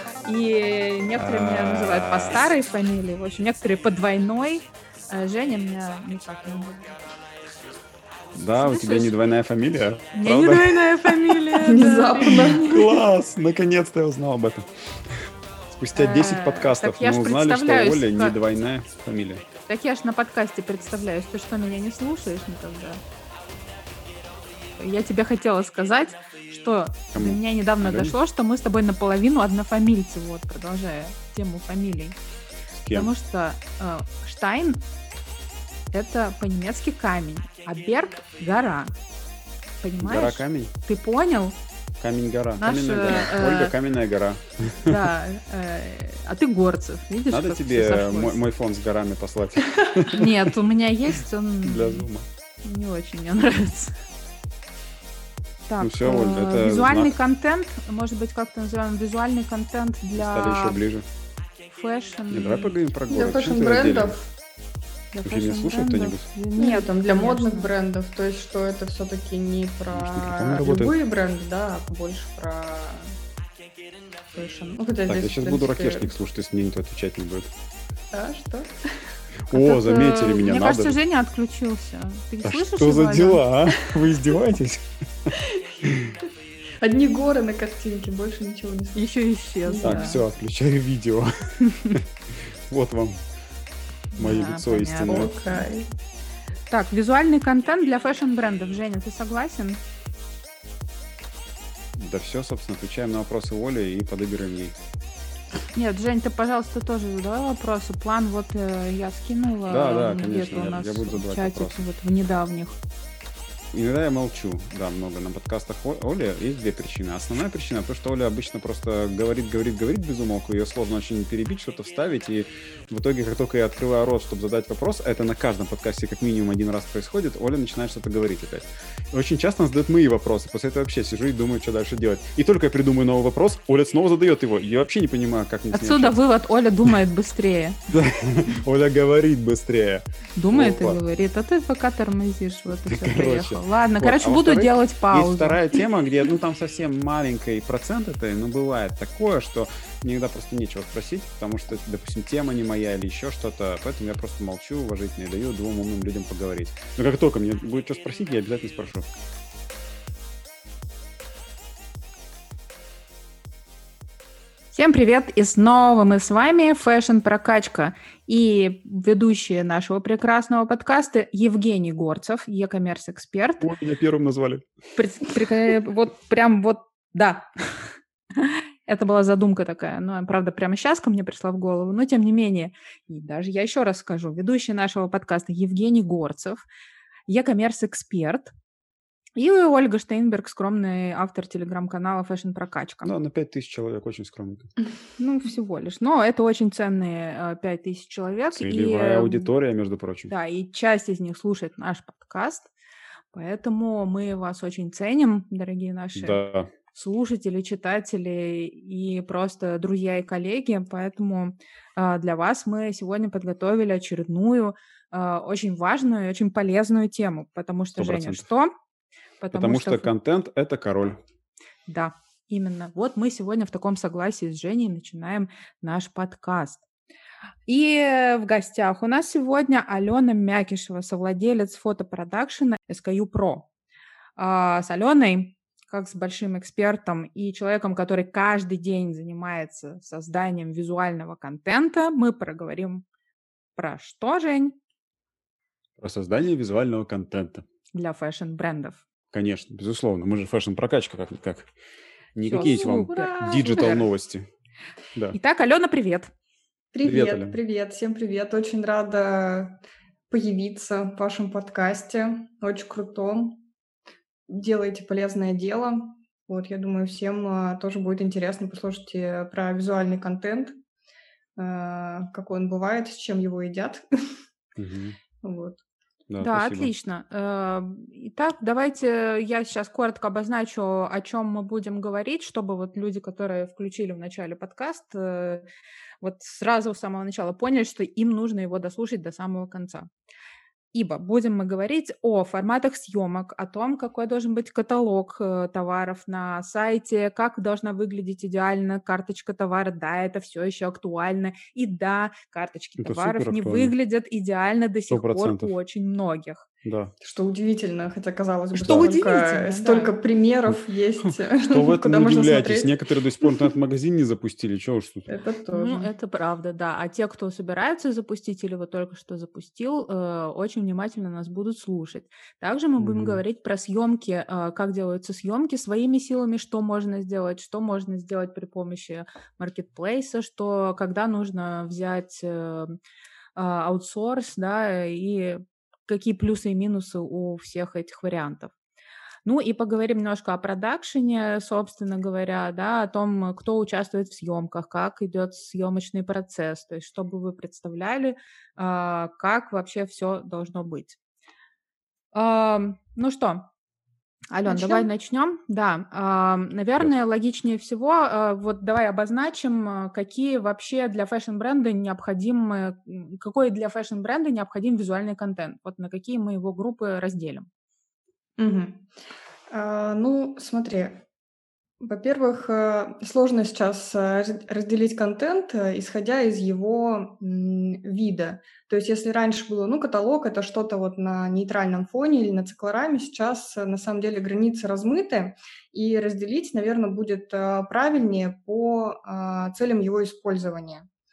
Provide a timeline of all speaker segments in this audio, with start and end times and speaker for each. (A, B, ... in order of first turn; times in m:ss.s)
0:00.2-0:06.9 A
0:01.2-0:02.5 B
0:08.3-0:11.4 B
0:08.5-0:09.1 A
0:10.1-0:13.0 A
0:11.5-0:12.8 C
0:12.4-0:15.1 B
0:15.7-0:19.4 B
0:15.9-0:18.4 A
0:19.7-0:23.0 A
0:24.8-0:32.2 A
0:27.1-0:28.2 B
0:32.7-0:33.1 B
0:32.9-0:34.8 A
0:35.9-0:38.9 A
0:39.8-0:41.6 A
0:40.0-0:40.7 B
0:42.0-0:45.0 B
0:42.6-0:43.7 A
0:44.8-0:48.4 A
0:47.3-0:50.5 B
0:50.1-0:52.1 A
0:51.6-0:52.3 B
0:52.6-0:53.9 A
0:55.7-1:00.8 A
0:55.8-0:57.1 B
1:00.1-1:01.1 B
1:01.7-1:02.8 A
1:02.3-1:04.2 B
1:03.1-1:04.3 C
1:05.1-1:07.7 A
1:05.2-1:06.3 B
1:06.6-1:13.2 C
1:09.9-1:11.0 B
1:14.3-1:16.1 C
1:15.1-1:17.5 B
1:18.1-1:19.0 C
1:19.5-1:21.0 B
1:19.5-1:23.4 A
1:22.4-1:26.2 B
1:25.4-1:25.7 C
1:26.8-1:30.2 C
1:28.9-1:30.2 A
1:29.8-1:33.2 B
1:34.1-1:35.6 A
1:34.2-1:35.3 B
1:35.0-1:35.9 C
1:36.7-1:39.8 A
1:41.9-1:44.8 B
1:45.7-1:52.8 A
1:49.7-1:51.8 B
1:53.7-2:16.2 B
2:15.7-2:17.8 A
2:17.9-2:21.0 B
2:20.4-2:25.8 A
2:22.7-2:39.1 B
2:44.7-2:53.7 A
2:53.6-2:54.6 B
2:54.9-3:06.6 A
3:07.3-3:08.5 A
3:09.4-3:13.1 A
3:13.0-3:14.7 B
3:15.2-3:19.5 A
3:18.5-3:20.3 B
3:20.3-3:22.7 A
3:23.3-3:38.7 A
3:26.1-3:26.7 B
3:38.0-3:38.4 B
3:39.4-3:40.1 A
3:39.5-3:41.2 B
3:41.9-3:46.8 A
3:47.7-3:53.7 A
3:54.4-4:03.0 A
4:03.8-4:04.8 A
4:06.0-4:07.6 B
4:07.9-4:09.0 A
4:09.3-4:11.7 B
4:12.3-4:14.5 B
4:12.4-4:14.1 A
4:12.6-4:13.9 C
4:15.3-4:16.3 A
4:16.9-4:23.6 C
4:17.0-4:17.6 B
4:24.5-4:30.8 C
4:31.6-4:34.4 C
4:34.8-4:35.2 B
4:35.4-4:35.8 C
4:36.3-4:36.9 B
4:36.4-4:45.7 A
4:46.2-4:50.1 A
4:50.9-5:06.7 A
5:03.0-5:03.9 B
5:05.1-5:05.7 B
5:06.8-5:07.1 B
5:07.2-5:13.7 C
5:08.7-5:10.2 A
5:11.3-5:15.3 B
5:15.3-5:16.1 C
5:15.7-5:33.0 A
5:23.0-5:23.4 B
5:33.6-5:38.7 A
5:39.4-5:51.2 A
5:52.3-5:53.7 A
5:54.5-6:07.7 A
5:54.6-5:55.1 C
6:08.6-6:09.1 C
6:09.7-6:11.2 C
6:12.0-6:31.1 C